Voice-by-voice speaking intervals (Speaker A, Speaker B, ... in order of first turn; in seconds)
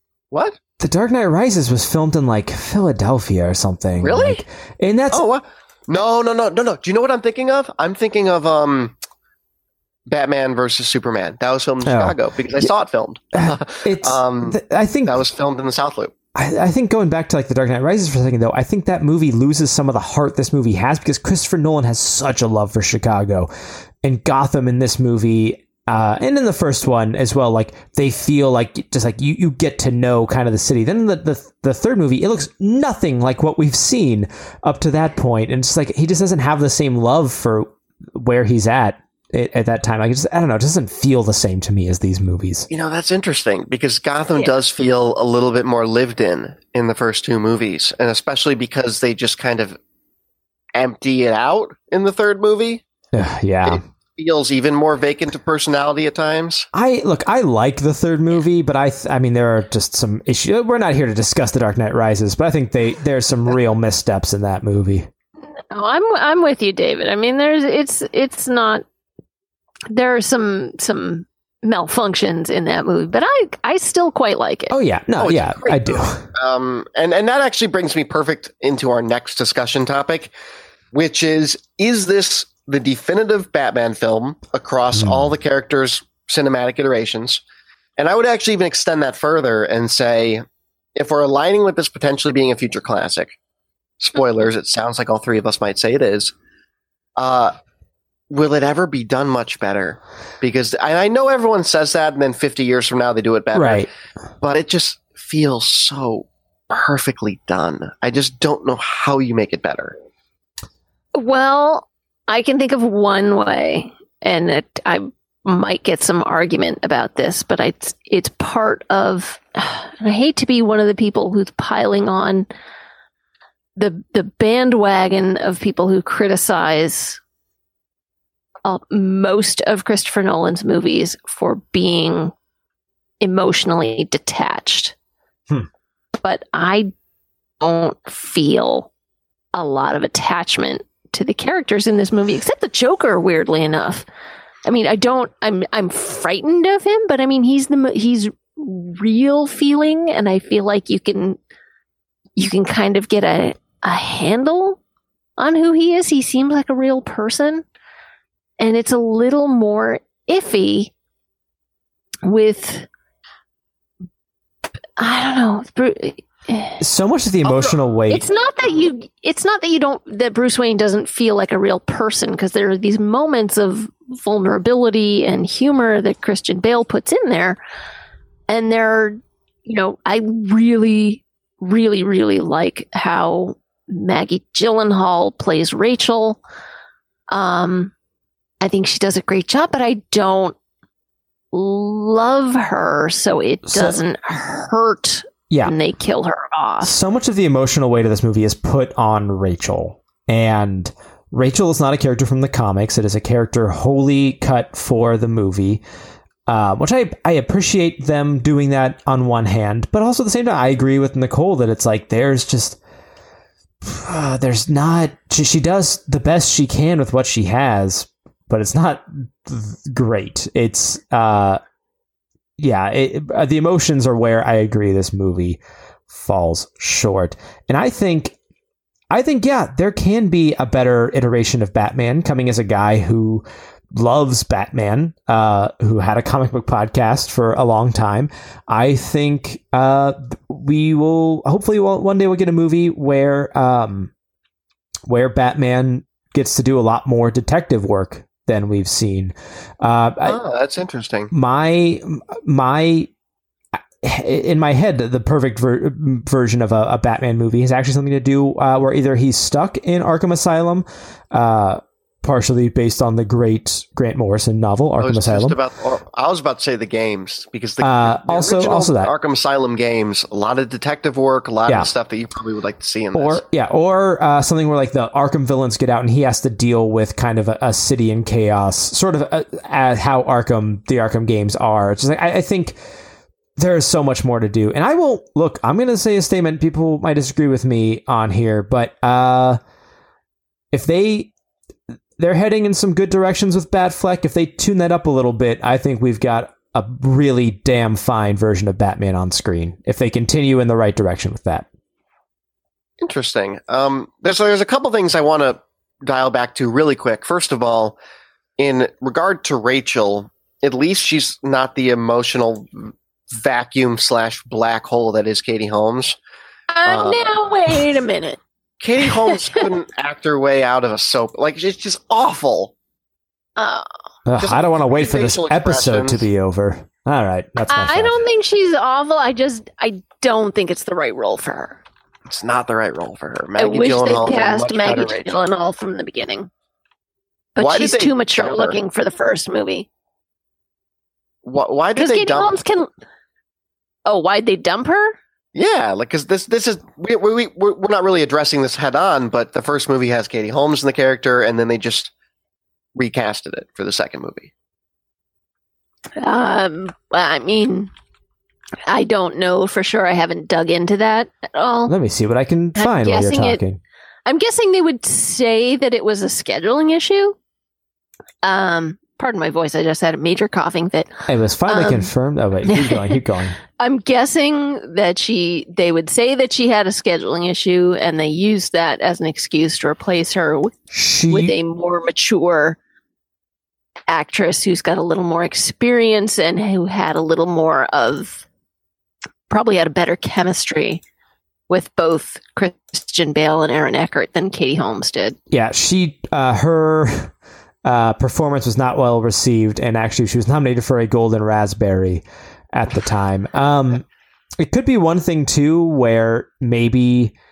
Speaker A: 0.3-0.6, 4.0-4.4, 5.1-8.9, 10.1-16.1, 42.7-49.8, 50.8-52.8, 53.7-56.7, 75.2-80.3, 80.9-87.4, 88.0-90.4, 91.0-93.4, 94.0-96.3, 97.2-97.5, 98.3-103.9, 104.4-110.0, 250.2-251.3, 265.0-273.4, 303.0-308.0, 308.6-316.2, 316.9-317.3, 318.8-322.7, 324.4-326.2, 332.3-335.3, 337.6-338.8, 341.4-342.6, 345.6-352.1, 352.9-354.5
Speaker B: 0.8-5.2, 11.8-12.7, 13.3-15.2, 16.4-23.5, 24.0-42.7, 53.1-53.8, 56.7-65.1, 74.7-76.3, 85.0-85.3, 103.5-103.9, 166.8-168.2, 193.7-194.0, 196.8-205.8, 206.5-212.8, 213.8-221.6, 222.6-225.6, 226.1-228.3, 229.1-244.1, 245.1-250.4, 251.3-253.1, 254.0-265.6, 267.8-269.1, 273.1-282.8, 283.6-289.6, 290.7-291.3, 292.2-301.7, 324.3-328.2, 361.9-363.8, 371.3-373.6, 380.9-381.6, 395.5-397.3, 397.8-404.1, 404.6-407.3
Speaker C: 65.7-68.8, 69.9-74.8, 111.2-122.5, 123.8-127.2, 128.7-132.3, 133.2-134.9, 136.2-136.9, 137.6-138.9, 139.5-144.1, 144.7-151.4, 152.4-154.8, 155.4-157.7, 158.6-160.9, 162.2-162.9, 165.0-166.8, 167.4-177.6, 178.5-186.4, 187.3-187.9, 188.6-190.6, 191.5-197.0, 316.7-318.4, 319.0-319.7, 323.6-323.9, 327.7-331.8, 333.6-336.5, 337.6-339.9, 342.0-342.9, 344.1-345.2, 356.2-357.9, 358.9-361.9, 362.8-363.6, 364.3-367.4, 368.4-371.1, 371.7-372.1, 372.7-373.2, 373.8-380.8, 381.3-382.8, 384.1-388.4, 389.5-391.0, 391.7-395.4